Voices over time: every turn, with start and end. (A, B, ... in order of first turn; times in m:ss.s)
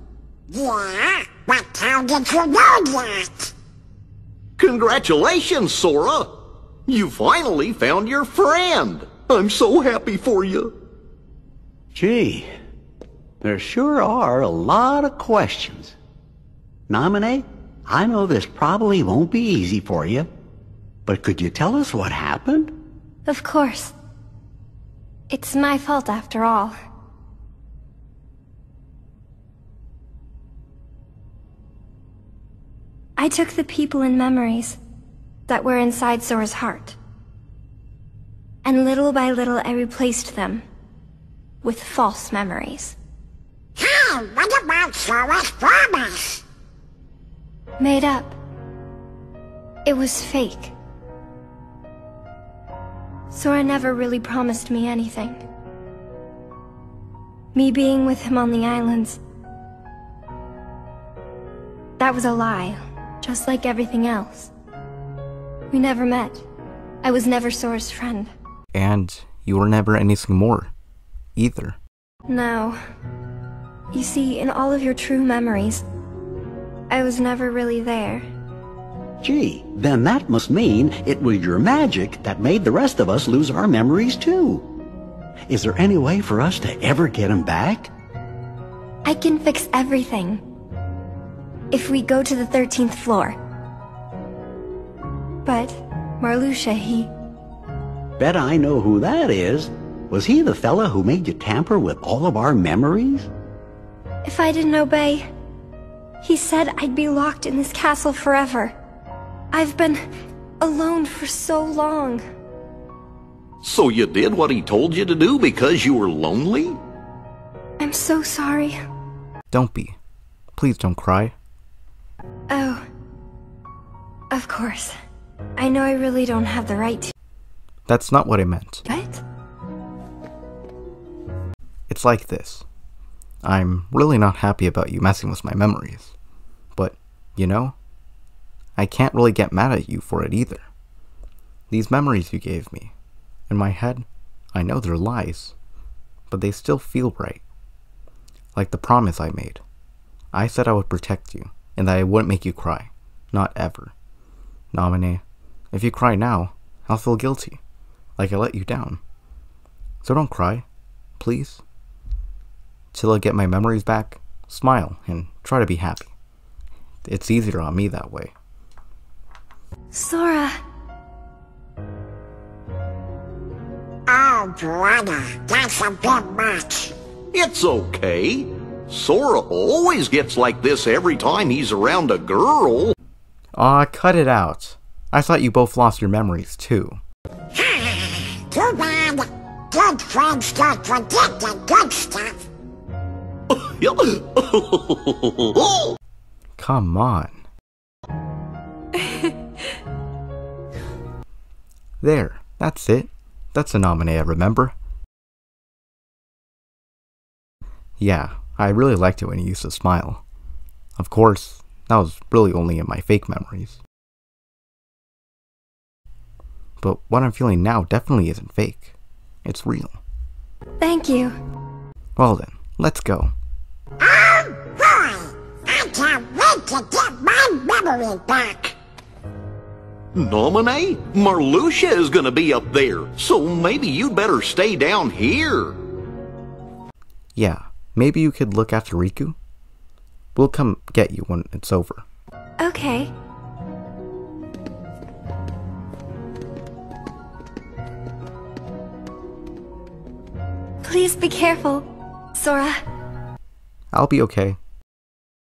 0:00.5-0:03.5 A
0:04.6-0:06.3 B
0:06.9-0:10.7 B
0:11.9-0:12.5 C
0:13.4-0:15.9 C
0:16.9-0:20.3 C
0:21.0-0:22.7 C
0:23.2-0:23.9 D
0:25.3-0:26.8 D
0:33.2-0:34.8 D
0:35.5-0:37.0 D
0:38.6-0:40.6 D
0:41.6-0:43.0 D
0:43.8-0:46.4 A
0:47.8-0:48.4 D
0:49.8-0:50.7 D
0:53.3-0:55.4 D
0:57.5-0:59.2 D
1:02.0-1:04.5 D
1:05.7-1:06.4 D
1:07.0-1:08.3 D
1:08.7-1:10.7 E
1:11.4-1:11.8 E
1:12.3-1:12.8 D
1:13.9-1:15.8 D
1:16.9-1:18.2 D
1:19.2-1:24.7 C
1:25.5-1:27.9 C
1:29.0-1:30.4 D
1:31.7-1:33.4 D
1:35.4-1:37.1 D
1:38.2-1:43.3 C
1:44.2-1:45.3 D
1:46.2-1:48.7 D
1:49.5-1:50.0 D
1:50.6-1:52.2 D
1:53.6-1:56.8 B
1:57.8-1:58.8 D
1:59.5-2:00.0 E
2:00.5-2:01.3 E
2:02.5-2:02.8 D
2:04.3-2:04.9 D
2:05.6-2:07.1 D
2:07.9-2:08.8 E
2:08.8-2:09.2 D
2:11.9-2:12.6 E
2:13.4-2:16.1 E
2:16.8-2:17.7 E
2:18.8-2:20.7 E
2:21.7-2:22.9 E
2:23.5-2:25.5 E
2:26.3-2:27.4 E
2:28.5-2:29.6 E
2:30.3-2:33.9 E
2:34.7-2:37.6 E
2:38.2-2:39.0 E
2:40.0-2:40.6 E
2:41.2-2:41.6 E
2:42.9-2:46.1 E
2:47.0-2:48.3 E
2:49.9-2:50.5 D
2:54.1-2:56.9 A
2:57.3-3:02.9 B
3:03.5-3:07.0 E
3:07.5-3:12.4 A
3:13.5-3:16.0 B
3:16.6-3:17.4 E
3:22.0-3:24.7 E
3:28.0-3:30.2 E
3:31.0-3:33.8 E
3:36.8-3:38.9 E
3:39.4-3:40.0 E
3:40.8-3:41.3 D
3:42.2-3:43.3 E
3:44.0-3:48.7 A
3:50.1-3:55.8 B
3:57.3-3:59.4 E
4:00.3-4:02.0 E
4:02.6-4:03.1 D
4:10.8-4:12.8 D
4:13.9-4:14.6 E